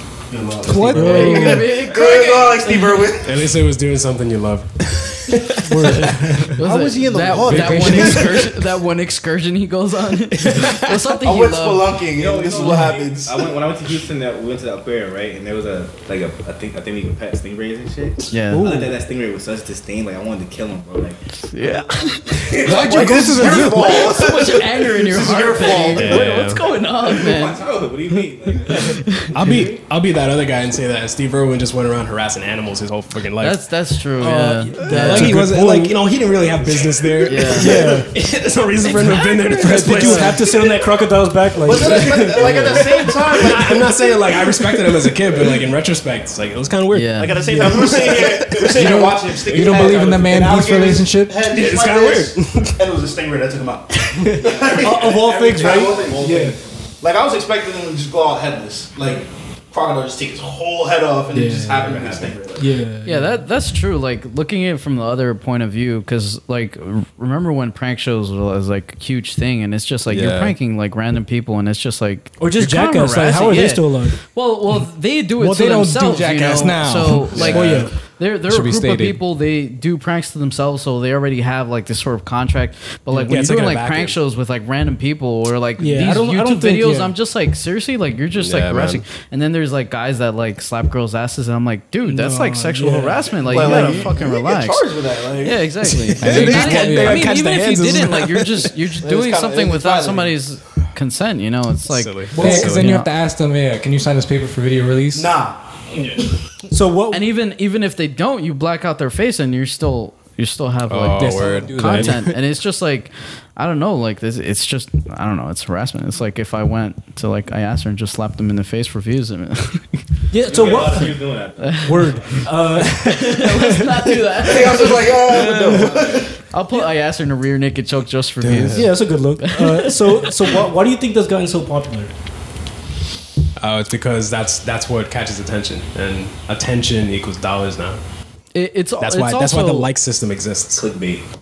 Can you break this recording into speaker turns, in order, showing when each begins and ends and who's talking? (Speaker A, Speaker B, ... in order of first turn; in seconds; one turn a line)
Speaker A: 0.3-3.5
Speaker B: 0.6-1.4
Speaker C: 0.9-3.1
Speaker D: 0.9-1.4
Speaker E: 1.0-1.6
Speaker F: 1.6-2.7
Speaker D: 3.2-6.5
Speaker E: 5.6-6.6
Speaker C: 6.6-12.0
Speaker A: 6.6-8.7
Speaker B: 7.4-8.3
Speaker D: 10.4-10.9
Speaker A: 11.2-13.5
Speaker F: 12.2-22.9
Speaker C: 12.5-12.9
Speaker C: 18.3-18.7
Speaker E: 18.5-18.9
Speaker C: 21.5-27.6
Speaker B: 22.6-24.0
Speaker A: 22.7-26.4
Speaker D: 25.9-26.7
Speaker F: 27.0-29.8
Speaker C: 28.7-29.3
Speaker D: 29.3-33.7
Speaker C: 33.4-35.5
Speaker E: 34.2-36.0
Speaker D: 34.8-40.6
Speaker F: 36.3-37.5
Speaker C: 37.2-37.9
Speaker E: 37.5-38.1
Speaker C: 38.8-40.4
Speaker E: 39.5-42.2
Speaker A: 41.6-44.3
Speaker D: 41.7-49.1
Speaker C: 42.4-42.8
Speaker C: 46.9-47.5
Speaker A: 47.2-56.4
Speaker E: 47.4-48.2
Speaker B: 48.6-51.4
Speaker F: 49.5-50.1
Speaker D: 51.4-52.8
Speaker D: 54.0-54.4
Speaker F: 54.4-56.6
Speaker E: 54.7-56.6
Speaker A: 57.0-62.7
Speaker E: 61.3-63.5
Speaker C: 63.0-103.1
Speaker D: 70.1-70.5
Speaker E: 72.4-74.2
Speaker B: 75.4-77.8
Speaker D: 77.3-77.8
Speaker E: 77.3-77.9
Speaker B: 78.5-79.2
Speaker D: 83.1-84.2
Speaker E: 85.8-87.1
Speaker D: 88.3-89.0
Speaker E: 92.0-93.8
Speaker A: 93.4-95.8
Speaker D: 95.8-98.7
Speaker B: 96.2-97.3
Speaker A: 99.0-100.4
Speaker D: 101.9-103.0
Speaker B: 102.3-105.3
Speaker A: 105.1-105.6
Speaker E: 105.9-107.2
Speaker C: 107.1-120.0
Speaker D: 110.8-112.4
Speaker B: 111.2-112.3
Speaker E: 120.3-121.2
Speaker F: 120.5-122.4
Speaker E: 121.8-124.3
Speaker C: 123.0-130.4
Speaker A: 124.4-126.4
Speaker D: 128.4-129.0
Speaker E: 128.7-132.1
Speaker D: 133.6-138.0
Speaker C: 138.5-139.9
Speaker D: 139.0-140.8
Speaker F: 140.8-141.2